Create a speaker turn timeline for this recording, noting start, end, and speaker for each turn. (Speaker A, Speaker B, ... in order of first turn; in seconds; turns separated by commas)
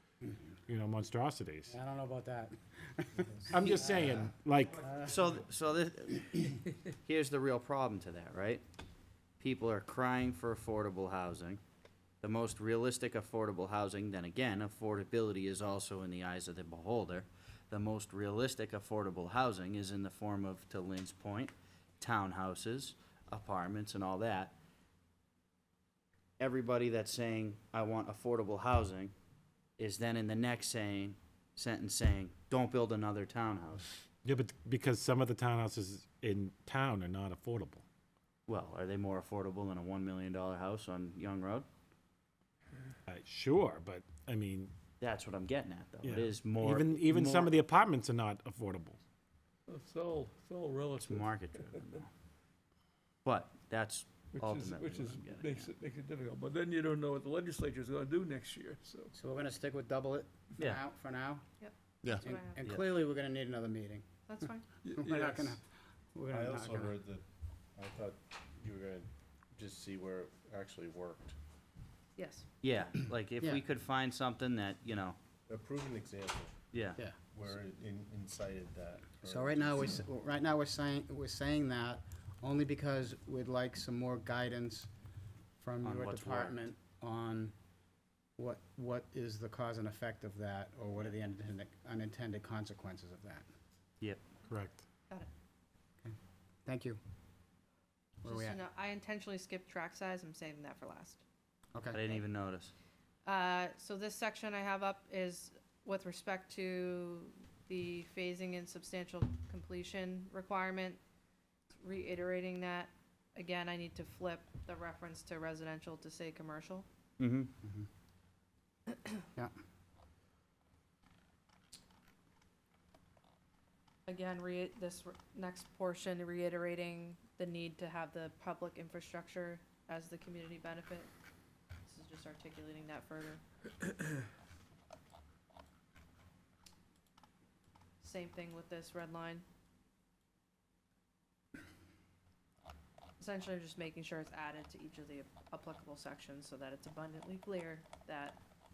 Speaker A: 0.7-1.8, Speaker B: 1.7-5.1, Speaker A: 3.5-4.8, Speaker C: 5.0-8.6, Speaker C: 9.4-11.6, Speaker C: 12.2-24.6, Speaker C: 26.4-29.1, Speaker C: 29.8-33.9, Speaker A: 34.2-37.8, Speaker C: 38.5-41.7, Speaker A: 43.1-44.7, Speaker C: 45.0-47.5, Speaker A: 46.0-49.0, Speaker D: 49.7-52.0, Speaker C: 51.0-52.1, Speaker C: 53.2-55.7, Speaker D: 54.3-59.1, Speaker B: 59.1-61.4, Speaker E: 61.6-62.6, Speaker B: 62.0-64.0, Speaker E: 64.3-64.7, Speaker D: 64.8-65.6, Speaker B: 65.0-65.6, Speaker B: 66.1-67.0, Speaker F: 66.3-67.2, Speaker F: 67.7-71.4, Speaker E: 72.2-72.5, Speaker C: 72.6-75.2, Speaker F: 75.5-76.6, Speaker C: 76.7-77.0, Speaker F: 77.2-80.0, Speaker B: 79.2-84.9, Speaker B: 85.6-87.5, Speaker C: 85.8-86.6, Speaker B: 88.4-93.4, Speaker A: 94.5-94.8, Speaker B: 96.7-97.0, Speaker B: 98.2-98.6, Speaker E: 98.2-101.2, Speaker B: 101.7-102.0, Speaker C: 101.9-102.7, Speaker E: 103.2-111.0, Speaker E: 111.8-116.8, Speaker C: 117.2-117.5, Speaker B: 117.6-117.9, Speaker E: 124.1-131.1, Speaker E: 131.8-133.4, Speaker E: 138.0-139.4, Speaker E: 143.2-148.4